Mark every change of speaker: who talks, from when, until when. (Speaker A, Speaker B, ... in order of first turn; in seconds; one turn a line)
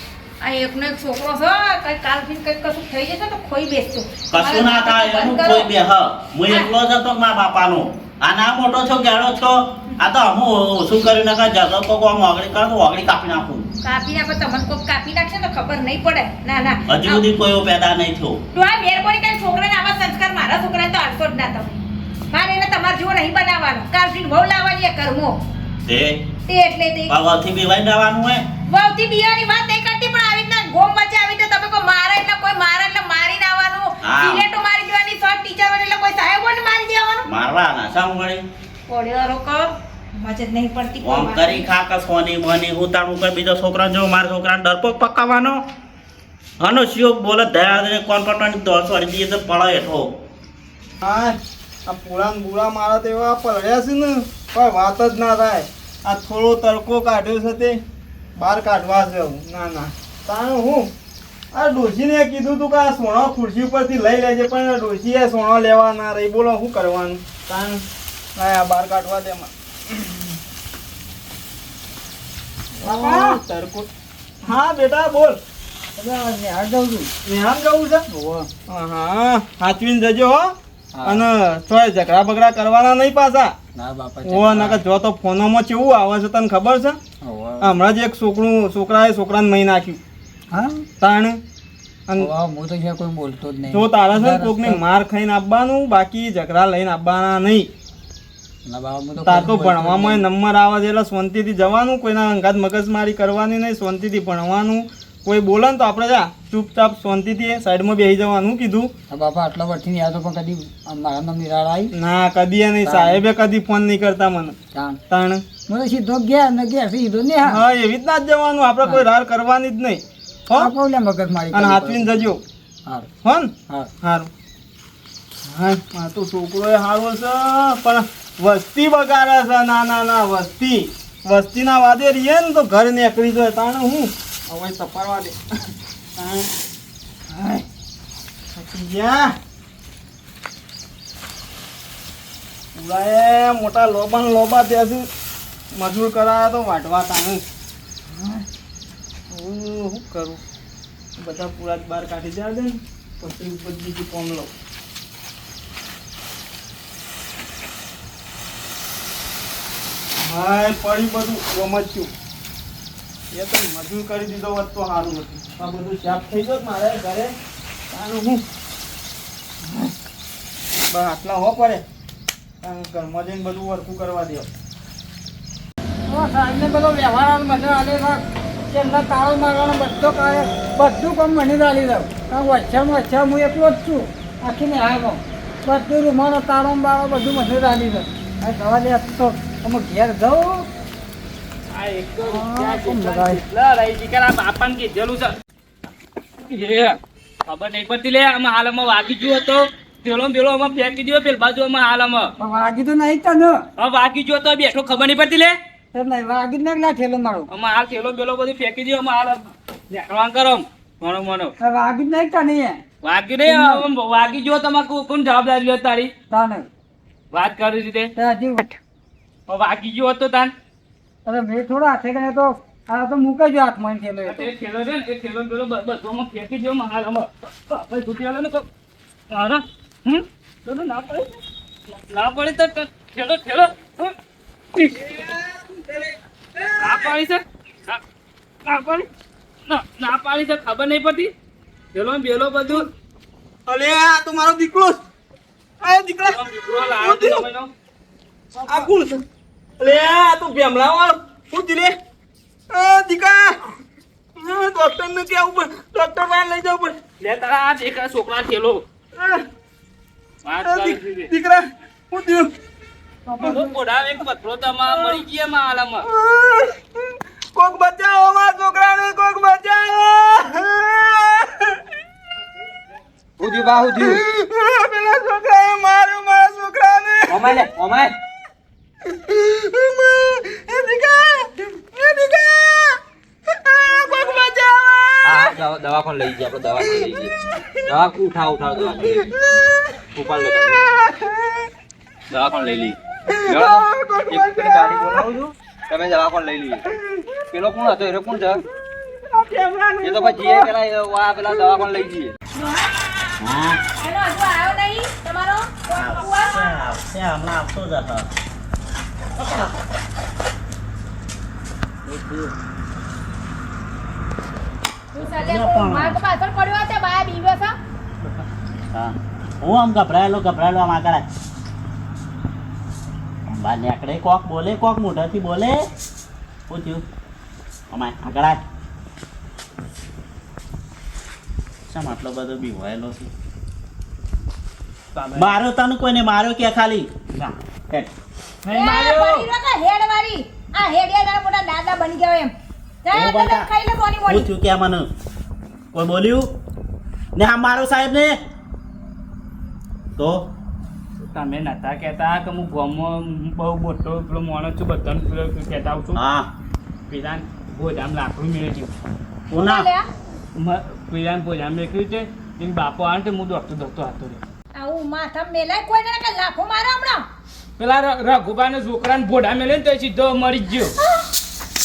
Speaker A: 0.4-5.7
Speaker B: 4.3-13.7
Speaker A: 13.8-17.3
Speaker B: 16.9-18.4
Speaker A: 18.5-25.4
Speaker B: 25.9-26.2
Speaker A: 26.5-27.1
Speaker B: 27.1-28.4
Speaker A: 28.7-37.3
Speaker B: 34.0-34.5
Speaker B: 37.3-38.4
Speaker A: 38.9-41.7
Speaker B: 41.0-45.6
Speaker B: 46.6-50.1
Speaker C: 51.0-57.8
Speaker C: 58.4-60.9
Speaker C: 61.5-67.8
Speaker C: 68.4-70.3
Speaker D: 72.8-73.4
Speaker C: 72.8-73.9
Speaker C: 74.4-75.4
Speaker D: 76.0-77.1
Speaker C: 77.2-78.0
Speaker D: 78.1-78.5
Speaker C: 78.7-83.5
Speaker D: 80.9-81.3
Speaker D: 83.8-84.8
Speaker C: 84.2-87.0
Speaker D: 87.2-87.8
Speaker C: 87.6-90.0
Speaker D: 90.5-90.9
Speaker C: 91.0-91.4
Speaker D: 92.2-94.8
Speaker C: 93.7-97.7
Speaker D: 98.7-100.2
Speaker C: 99.2-108.9
Speaker D: 109.1-111.9
Speaker C: 111.9-114.6
Speaker D: 112.8-113.2
Speaker D: 114.7-115.0
Speaker C: 115.1-115.4
Speaker D: 115.7-117.6
Speaker C: 117.4-120.7
Speaker D: 120.5-122.3
Speaker C: 121.5-122.4
Speaker C: 123.2-124.3
Speaker C: 125.5-135.4
Speaker C: 136.2-136.5
Speaker C: 137.3-137.6
Speaker C: 138.5-139.3
Speaker C: 142.8-145.1
Speaker C: 145.7-147.4
Speaker C: 149.3-150.4
Speaker C: 151.2-154.5
Speaker C: 160.2-162.1
Speaker C: 163.3-167.3
Speaker C: 167.9-168.4
Speaker C: 170.9-171.8
Speaker C: 172.6-174.5
Speaker D: 176.1-190.7
Speaker E: 191.7-195.3
Speaker D: 192.2-193.4
Speaker E: 196.4-202.3
Speaker D: 202.4-203.6
Speaker E: 203.8-205.6
Speaker D: 205.9-207.5
Speaker E: 207.5-211.5
Speaker D: 211.6-212.8
Speaker E: 213.0-216.1
Speaker D: 213.4-213.8
Speaker D: 216.3-216.7
Speaker E: 217.3-218.1
Speaker D: 218.2-218.8
Speaker E: 219.5-220.5
Speaker D: 221.3-224.5
Speaker E: 224.2-228.7
Speaker E: 229.3-231.3
Speaker E: 231.9-234.1
Speaker E: 234.8-235.3
Speaker C: 235.2-237.1
Speaker E: 236.8-238.0
Speaker E: 238.7-239.1
Speaker E: 239.7-241.3
Speaker E: 241.9-242.9
Speaker C: 243.7-245.0
Speaker C: 245.8-247.4
Speaker E: 246.3-247.7
Speaker C: 248.7-249.2
Speaker C: 249.8-251.9
Speaker C: 252.7-253.6
Speaker C: 254.4-257.0
Speaker E: 257.2-258.8
Speaker C: 259.2-259.4
Speaker E: 260.4-261.3
Speaker C: 260.6-262.5
Speaker C: 263.4-263.7
Speaker E: 263.4-266.1
Speaker C: 264.9-265.2
Speaker C: 266.1-266.8
Speaker C: 267.5-271.8
Speaker F: 273.4-274.2
Speaker C: 274.0-277.6
Speaker F: 277.3-278.1
Speaker C: 279.2-283.0
Speaker C: 283.7-285.5
Speaker F: 285.2-287.3
Speaker F: 287.9-289.3
Speaker F: 290.1-290.8
Speaker C: 290.9-291.5
Speaker F: 292.3-296.8
Speaker C: 293.3-295.1
Speaker F: 297.5-298.6
Speaker C: 299.3-300.7
Speaker F: 300.0-302.3
Speaker A: 302.5-303.3
Speaker B: 303.4-303.8
Speaker A: 304.0-306.8
Speaker B: 305.9-308.3
Speaker B: 309.4-309.7
Speaker B: 312.1-312.5
Speaker A: 315.1-317.8
Speaker B: 315.2-316.2
Speaker B: 318.9-321.3
Speaker B: 323.5-325.9
Speaker B: 326.7-327.0
Speaker B: 327.9-328.6
Speaker B: 331.9-333.3
Speaker E: 335.1-335.6
Speaker B: 335.4-337.1
Speaker E: 338.6-339.5
Speaker A: 338.7-342.5
Speaker A: 343.0-344.5
Speaker B: 343.1-343.7
Speaker B: 344.3-345.1
Speaker B: 345.9-346.5
Speaker B: 347.4-348.4
Speaker B: 350.2-350.5
Speaker E: 351.3-356.2
Speaker B: 356.1-356.5
Speaker E: 357.1-358.9
Speaker B: 359.5-359.9
Speaker A: 359.6-360.1
Speaker E: 360.6-364.4
Speaker A: 364.8-367.2
Speaker E: 367.8-370.9
Speaker A: 371.0-371.3